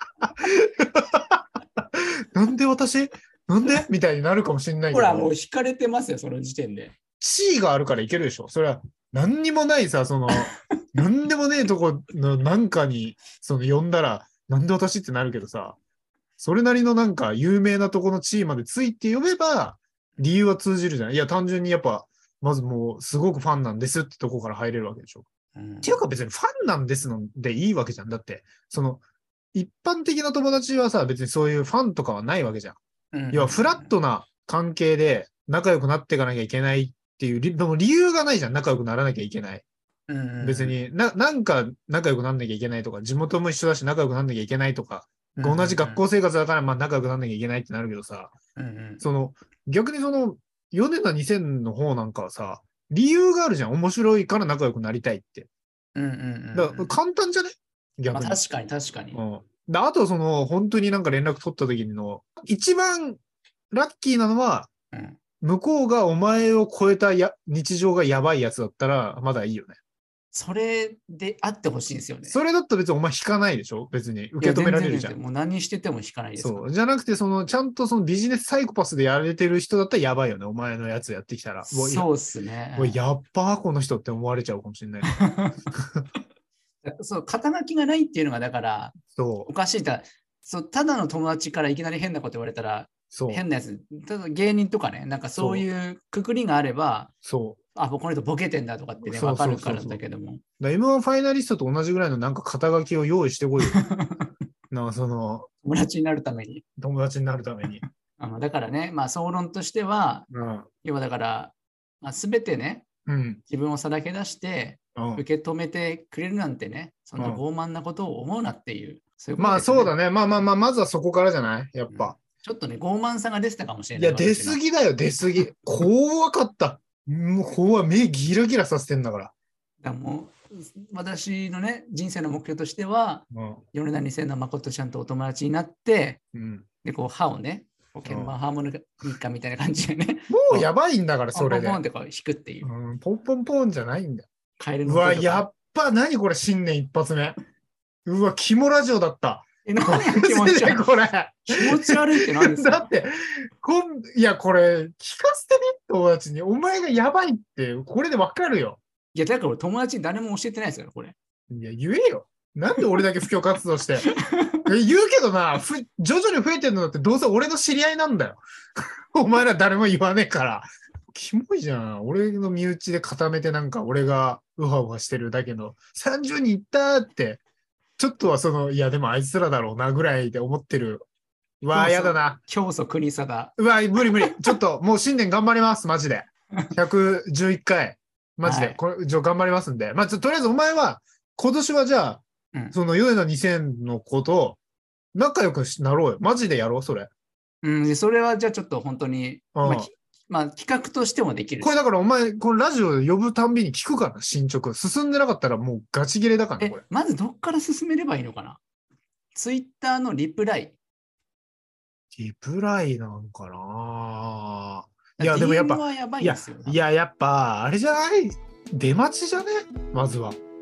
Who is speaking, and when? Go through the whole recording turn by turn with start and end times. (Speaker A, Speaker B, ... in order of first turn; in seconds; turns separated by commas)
Speaker A: 0.4-5.3, Speaker B: 4.9-7.0, Speaker A: 7.2-15.8, Speaker A: 16.4-25.3, Speaker B: 25.5-26.0, Speaker A: 25.8-29.0, Speaker A: 29.5-32.8, Speaker B: 33.1-33.9, Speaker A: 33.3-39.6, Speaker B: 40.1-40.8, Speaker A: 40.4-48.3, Speaker B: 45.4-46.0, Speaker B: 48.5-49.0, Speaker A: 49.0-55.5, Speaker B: 55.9-56.9, Speaker A: 56.5-58.4, Speaker B: 58.1-59.2, Speaker A: 59.1-63.2, Speaker A: 63.7-64.7, Speaker B: 64.9-65.2, Speaker A: 65.4-69.8, Speaker B: 70.3-72.4, Speaker A: 72.3-75.1, Speaker B: 74.4-76.7, Speaker A: 76.4-82.1, Speaker B: 81.6-83.0, Speaker A: 82.8-85.1, Speaker B: 85.2-85.5, Speaker A: 85.7-86.0, Speaker B: 86.8-89.0, Speaker A: 89.1-89.5, Speaker B: 89.5-97.1, Speaker A: 93.1-93.4, Speaker A: 95.3-95.6, Speaker A: 97.2-97.6, Speaker B: 97.7-100.4, Speaker A: 99.0-100.0, Speaker A: 100.6-103.8, Speaker B: 103.7-104.3, Speaker A: 104.7-105.5, Speaker B: 105.6-106.6, Speaker A: 106.8-107.8, Speaker B: 107.7-110.3, Speaker A: 110.3-110.7, Speaker B: 110.8-112.8, Speaker A: 113.1-113.4, Speaker B: 113.5-119.9, Speaker A: 115.0-115.2, Speaker A: 119.4-122.2, Speaker B: 121.9-124.6, Speaker A: 124.0-129.3, Speaker B: 129.8-136.2, Speaker A: 133.3-133.6, Speaker A: 136.3-136.7, Speaker B: 136.8-140.7, Speaker A: 138.1-138.3, Speaker A: 140.3-141.8, Speaker B: 141.3-142.7, Speaker A: 142.6-144.3, Speaker B: 144.6-145.4, Speaker A: 144.8-147.4, Speaker A: 148.1-158.8, Speaker B: 149.6-150.9, Speaker B: 151.5-152.9, Speaker B: 159.1-161.1, Speaker A: 161.5-164.1, Speaker B: 164.0-164.7, Speaker A: 164.7-177.4, Speaker A: 178.0-181.1, Speaker A: 181.6-182.4, Speaker B: 181.7-184.5, Speaker A: 183.6-194.6, Speaker B: 188.4-188.8, Speaker A: 195.1-197.1, Speaker B: 197.6-201.8, Speaker A: 199.5-199.9, Speaker A: 201.6-206.8, Speaker B: 206.6-208.6, Speaker B: 209.3-210.8, Speaker A: 212.1-220.4, Speaker B: 215.2-216.8